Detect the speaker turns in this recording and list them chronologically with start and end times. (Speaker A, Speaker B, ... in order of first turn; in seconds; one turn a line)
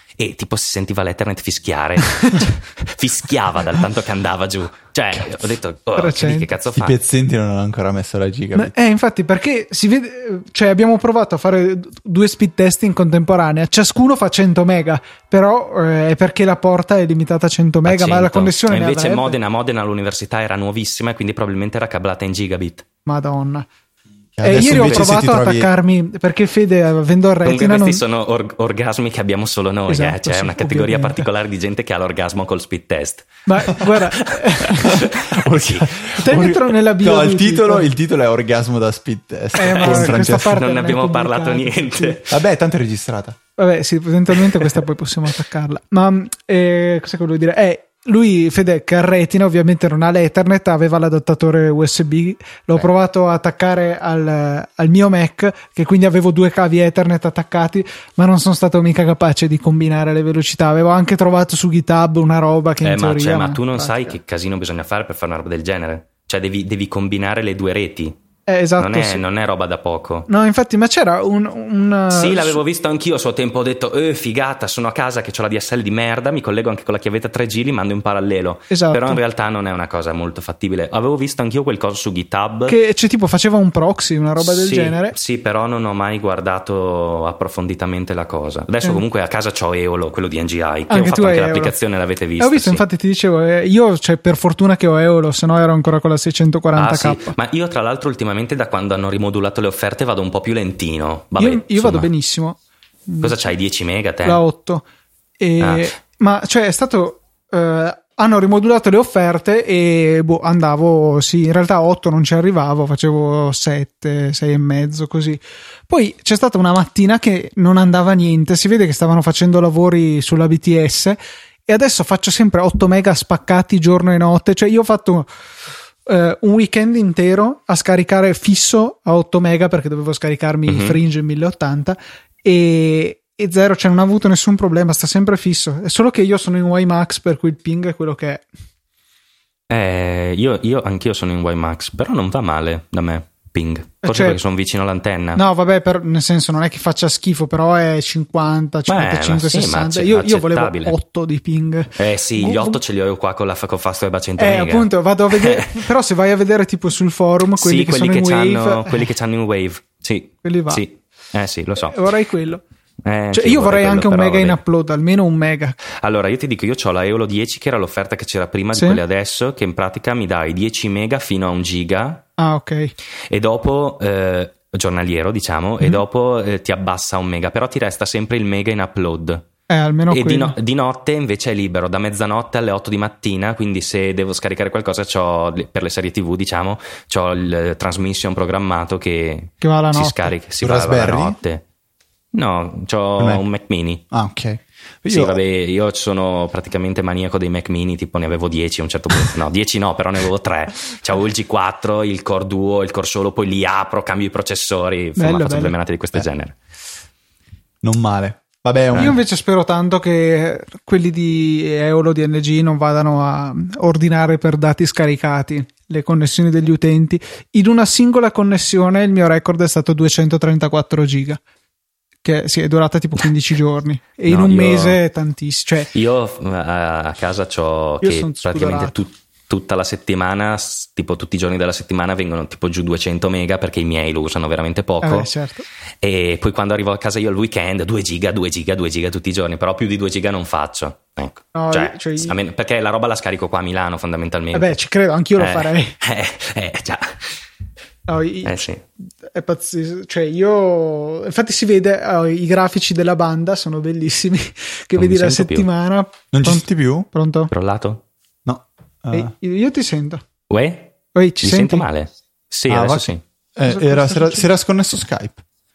Speaker A: 0.2-7.0
Speaker B: 6.0-6.5
Speaker C: 6.7-8.7
Speaker B: 8.5-19.4
Speaker A: 17.9-22.9
Speaker B: 23.1-23.7
Speaker C: 24.4-25.7
Speaker B: 24.4-28.0
Speaker A: 24.5-25.1
Speaker A: 27.4-36.1
Speaker B: 29.9-31.3
Speaker B: 33.5-35.2
Speaker C: 34.8-40.6
Speaker B: 36.1-37.9
Speaker B: 39.6-42.2
Speaker A: 39.6-42.4
Speaker C: 42.3-43.4
Speaker B: 43.6-64.2
Speaker A: 62.8-68.2
Speaker B: 68.5-69.2
Speaker A: 68.8-70.3
Speaker B: 70.3-72.6
Speaker A: 72.1-82.8
Speaker B: 78.7-79.2
Speaker B: 82.7-85.1
Speaker A: 84.4-92.8
Speaker B: 90.9-91.8
Speaker B: 92.4-97.3
Speaker A: 96.8-102.1
Speaker B: 101.4-102.6
Speaker B: 103.1-103.3
Speaker A: 103.2-104.4
Speaker B: 104.2-104.8
Speaker B: 105.4-125.3
Speaker A: 105.6-105.9
Speaker B: 126.1-138.5
Speaker A: 130.7-131.0
Speaker A: 139.7-145.4
Speaker B: 144.0-144.4
Speaker B: 145.4-152.8
Speaker A: 148.9-150.9
Speaker A: 152.0-155.8
Speaker B: 154.4-159.1
Speaker A: 157.6-162.0
Speaker B: 160.4-160.8
Speaker B: 161.8-162.6
Speaker A: 163.1-164.6
Speaker B: 163.3-165.8
Speaker A: 166.0-172.2
Speaker B: 168.7-169.0
Speaker B: 172.4-172.9
Speaker A: 173.3-179.4
Speaker B: 179.7-180.6
Speaker A: 180.1-191.6
Speaker B: 189.6-190.3
Speaker C: 190.6-191.4
Speaker A: 192.3-194.0
Speaker C: 193.2-193.4
Speaker C: 194.1-195.4
Speaker A: 195.1-206.6
Speaker B: 205.2-205.7
Speaker C: 207.8-209.2
Speaker B: 208.9-221.4
Speaker B: 222.2-225.9
Speaker A: 224.3-225.0
Speaker A: 225.9-235.3
Speaker B: 228.0-228.9
Speaker B: 235.0-235.7
Speaker A: 236.0-244.7
Speaker B: 241.6-242.4
Speaker B: 244.5-246.0
Speaker A: 245.4-247.3
Speaker B: 248.1-248.6
Speaker A: 248.4-248.8
Speaker B: 249.2-257.5
Speaker A: 255.0-255.7
Speaker C: 256.3-257.1
Speaker A: 257.5-258.0
Speaker C: 258.4-259.3
Speaker B: 259.1-260.2
Speaker A: 260.5-263.2
Speaker B: 261.1-261.9
Speaker C: 262.7-265.4
Speaker B: 263.6-264.5